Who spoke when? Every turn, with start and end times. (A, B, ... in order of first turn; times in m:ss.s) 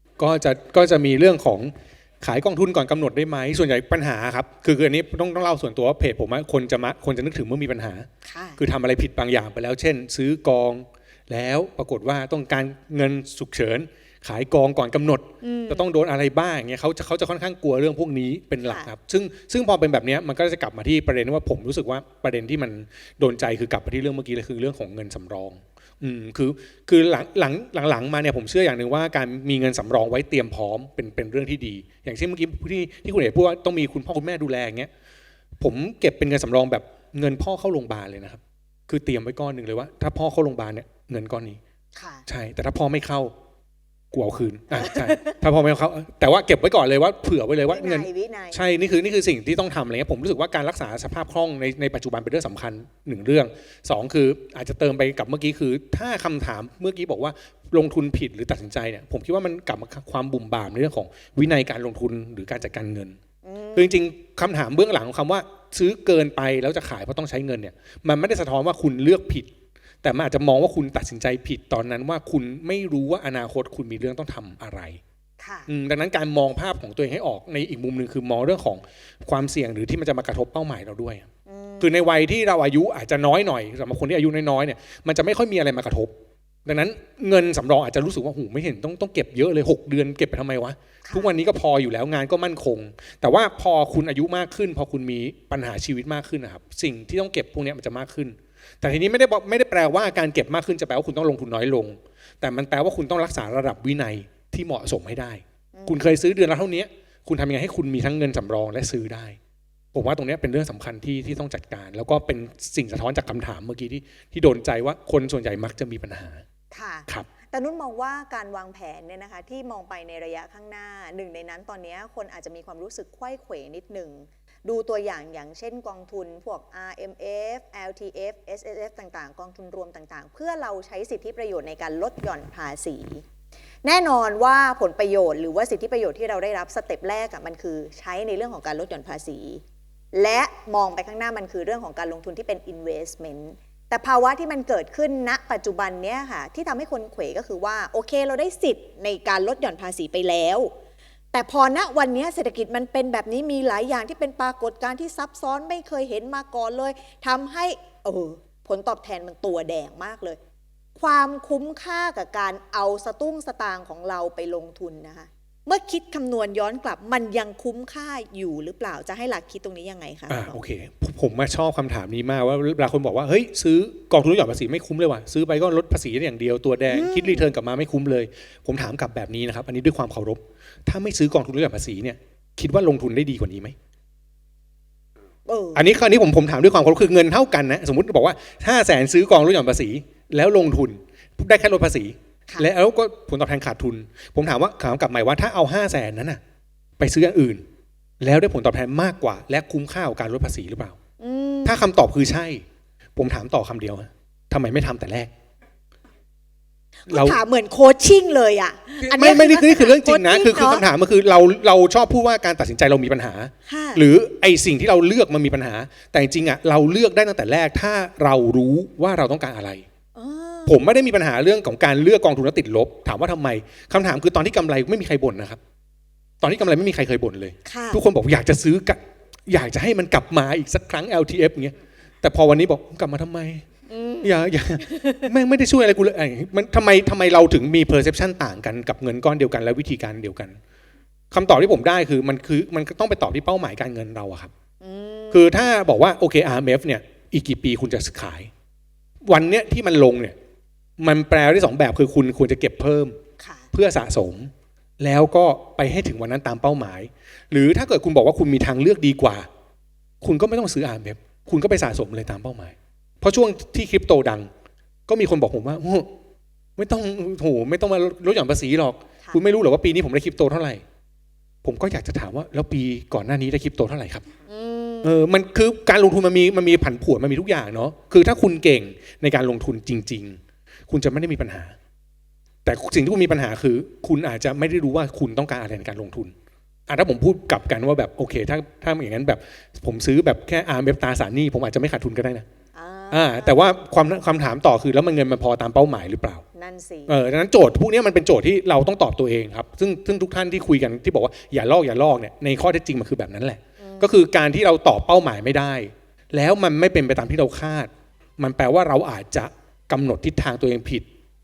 0:00.2-0:34.9 A
0:08.2-0:08.6 B
0:15.4-0:15.9 B
0:18.6-0:18.9 B
0:35.6-0:41.6 A
0:41.9-0:42.2 B
0:42.3-0:43.3 A
0:44.1-1:03.2 A
0:44.7-0:45.4 B
0:47.6-0:48.6 B
1:03.4-1:04.0 B
1:03.7-1:15.0 A
1:15.4-1:15.7 B
1:15.7-1:21.3 A
1:21.4-1:22.0 B
1:21.8-1:26.1 A
1:26.6-1:49.4 A
1:31.0-1:31.3 B
1:45.7-1:46.0 B
1:49.9-1:56.4 A
1:56.7-2:13.2 B
2:13.8-2:19.6 B
2:20.1-2:30.7 B
2:31.3-2:40.4 B
2:41.0-2:50.6 B
2:50.3-3:03.7 A
2:56.9-2:57.5 B
3:05.4-3:05.8 B
3:05.7-3:16.4 A
3:17.0-3:17.6 A
3:18.2-3:21.0 A
3:21.2-3:21.8 B
3:21.6-3:22.6 A
3:23.2-3:25.3 A
3:27.0-3:30.8 B
3:27.1-3:27.4 A
3:29.0-3:39.8 A
3:33.6-3:34.0 B
3:40.1-3:40.8 B
3:40.6-3:45.6 A
3:46.4-3:53.6 A
3:47.6-3:48.0 B
3:53.9-3:55.3 B
3:54.2-4:00.6 A
4:01.3-4:04.5 A
4:04.8-4:05.5 B
4:05.3-4:08.5 A
4:09.2-4:10.4 A
4:11.0-4:13.2 A
4:13.4-4:13.7 B
4:13.7-4:19.5 A
4:20.2-4:24.5 A
4:25.1-4:26.1 A
4:26.8-4:30.8 A
4:31.6-4:34.2 A
4:34.5-4:35.2 B
4:35.0-4:41.7 A
4:42.6-4:46.3 A
4:46.9-4:52.4 A
4:52.7-4:53.7 B
4:53.1-4:56.4 A
4:56.5-4:57.2 B
4:57.1-5:11.0 A
5:03.8-5:04.1 B